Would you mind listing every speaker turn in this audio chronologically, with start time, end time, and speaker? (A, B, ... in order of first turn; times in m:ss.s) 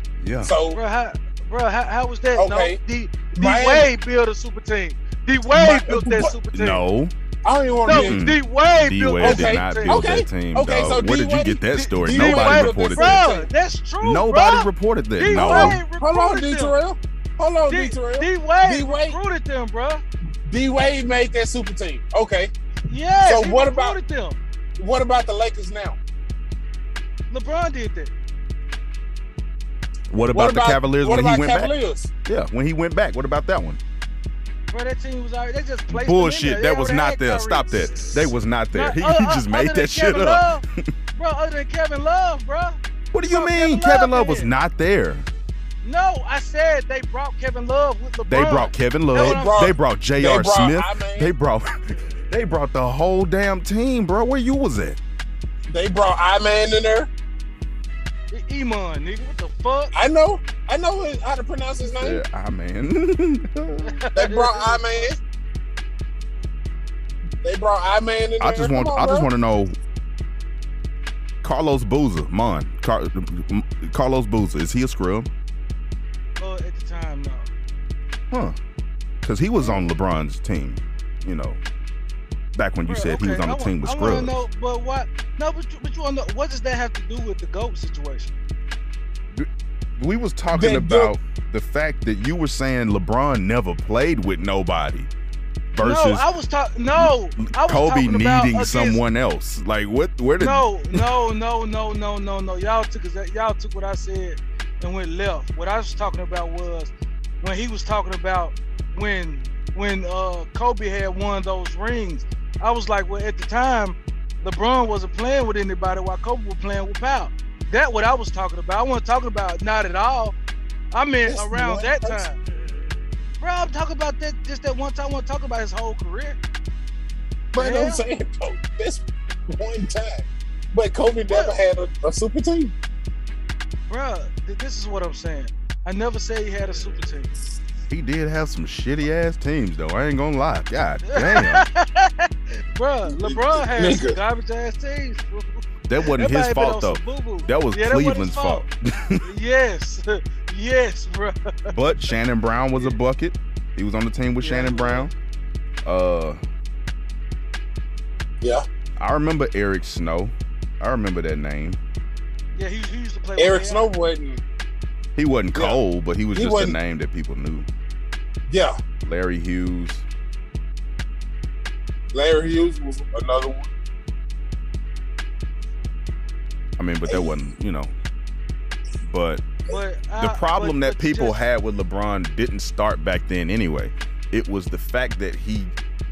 0:00.2-0:00.5 A
0:00.4-0:00.8 B
0:00.7-0:06.8 C
0:02.4-0:02.8 B
0:03.4-0:03.9 B
0:05.5-0:06.3 B
0:06.5-0:07.1 A
0:07.4-0:08.2 B
0:07.9-0:10.1 C
0:07.9-0:13.4 A
0:09.2-0:13.5 B
0:11.8-0:16.8 C
0:14.0-0:15.8 A
0:15.3-0:19.2 B
0:17.7-0:20.0 C
0:20.5-0:22.5 B
0:22.8-0:24.4 C
0:23.2-0:24.0 B
0:24.8-0:26.0 B
0:27.3-0:28.1 C
0:30.1-0:31.7 A
0:30.3-0:32.1 B
0:32.3-0:33.8 A
0:34.7-0:37.9 C
0:35.9-0:40.8 A
0:38.7-0:40.6 C
0:41.2-0:44.5 C
0:43.1-0:45.3 A
0:45.8-0:49.7 C
0:48.3-0:55.0 A
0:49.1-0:51.3 B
0:55.7-0:57.1 B
0:58.3-0:59.9 C
0:59.9-1:02.2 B
1:01.8-1:04.0 A
1:03.8-1:05.0 C
1:04.1-1:05.2 B
1:07.4-1:09.3 B
1:08.4-1:09.8 A
1:11.4-1:15.3 A
1:16.4-1:17.5 C
1:18.3-1:18.6 A
1:19.2-1:21.6 A
1:22.6-1:24.4 A
1:22.9-1:28.3 C
1:29.3-1:35.1 A
1:30.5-1:31.1 B
1:35.7-1:36.3 A
1:35.8-1:39.0 C
1:37.0-1:41.0 A
1:40.4-2:00.4 C
2:00.9-2:02.4 C
2:01.3-2:02.2 B
2:03.4-2:06.4 C
2:07.5-2:12.7 B
2:07.6-2:08.0 C
2:11.3-2:11.6 C
2:13.9-2:17.4 C
2:17.9-2:21.6 A
2:21.1-2:28.7 C
2:23.1-2:24.2 B
2:25.9-2:29.2 A
2:29.2-2:31.7 C
2:31.7-2:35.1 A
2:34.4-2:35.1 C
2:35.8-2:36.4 A
2:39.0-2:41.8 A
2:42.6-2:43.9 C
2:43.4-2:44.4 B
2:45.2-2:47.7 A
2:46.3-2:46.8 B
2:48.5-2:48.8 B
2:49.0-2:50.0 A
2:52.1-2:53.7 B
2:56.8-2:57.9 A
2:57.1-2:57.4 B
2:59.1-2:59.5 A
2:59.7-3:01.4 C
3:00.2-3:05.7 A